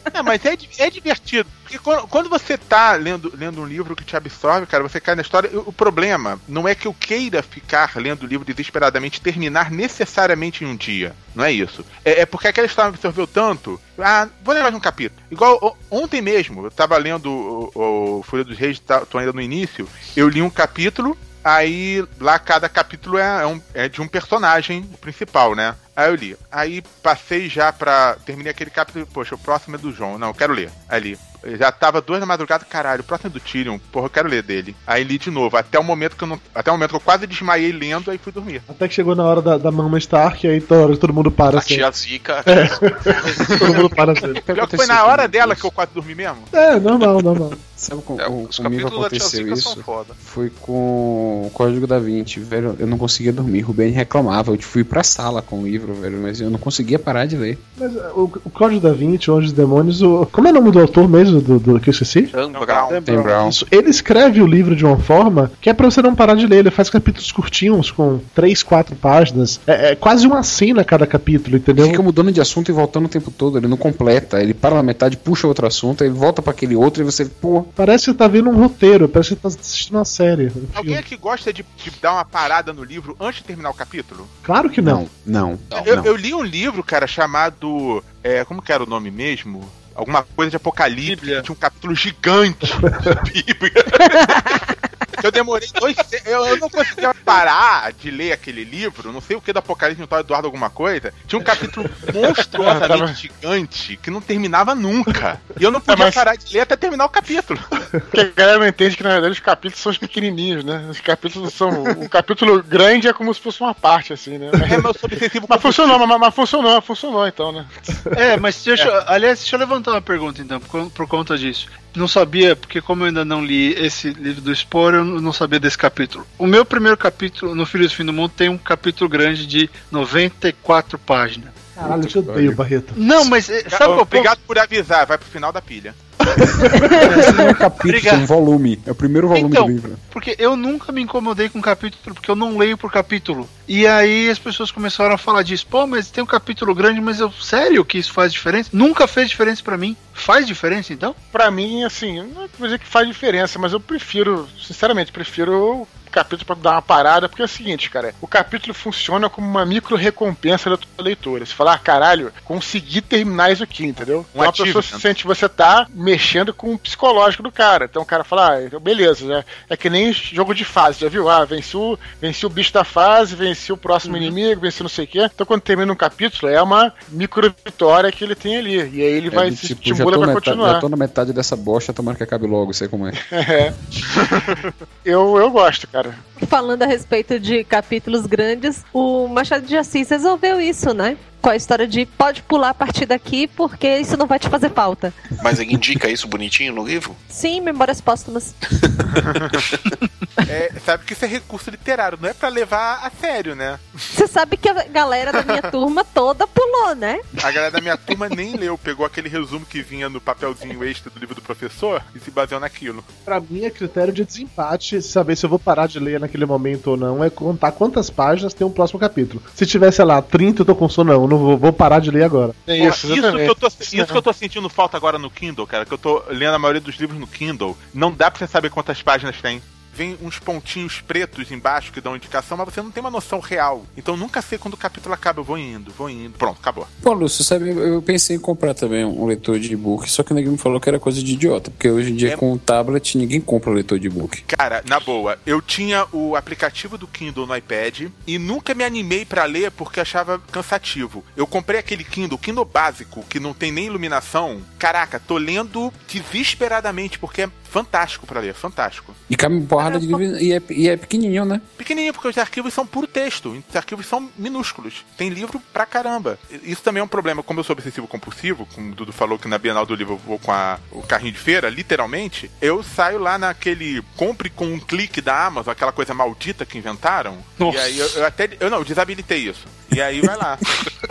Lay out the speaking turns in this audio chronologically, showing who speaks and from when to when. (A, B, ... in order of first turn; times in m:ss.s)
0:00.1-0:38.6 A
0:38.7-0:41.9 B
0:41.5-0:43.6 C
0:42.5-0:44.4 B
0:43.5-0:43.9 A
0:44.4-0:45.7 D
0:44.5-0:46.5 A
0:46.5-0:47.6 B
0:47.7-0:57.6 D
0:48.2-0:50.2 C
0:57.8-1:02.3 B
1:02.3-1:03.0 C
1:02.5-1:03.2 A
1:02.9-1:03.4 E
1:03.0-1:03.6 D
1:03.4-1:12.0 B
1:11.8-1:17.7 D
1:17.8-1:21.0 B
1:20.8-1:24.3 A
1:24.4-1:25.0 B
1:24.8-1:26.1 D
1:25.7-1:34.6 A
1:31.1-1:31.5 E
1:35.2-1:47.7 A
1:42.6-1:43.1 F
1:45.9-1:46.2 F
1:48.1-1:54.7 F
1:54.6-1:56.0 A
1:55.5-1:57.7 F
1:58.1-2:11.7 E
2:11.8-2:13.0 B
2:11.9-2:12.6 D
2:13.0-2:14.3 E
2:13.7-2:16.0 A
2:16.4-2:17.4 B
2:16.9-2:20.0 D
2:17.8-2:18.3 E
2:19.3-2:31.2 E
2:31.3-3:00.8 F
2:44.4-2:45.0 A
2:54.0-2:54.4 E
2:59.3-3:03.2 D
3:03.3-3:06.2 F
3:06.4-3:15.2 G
3:15.4-3:17.2 C
3:17.3-3:18.6 G
3:20.4-3:24.1 A
3:24.1-3:27.2 G
3:27.4-3:33.1 A
3:33.3-3:42.6 B
3:42.7-3:44.2 F
3:42.8-3:56.9 A
3:57.0-4:04.4 D
4:04.4-4:19.2 A
4:19.3-4:21.6 D
4:19.8-4:20.2 G
4:21.8-4:40.7 A
4:37.6-4:38.2 E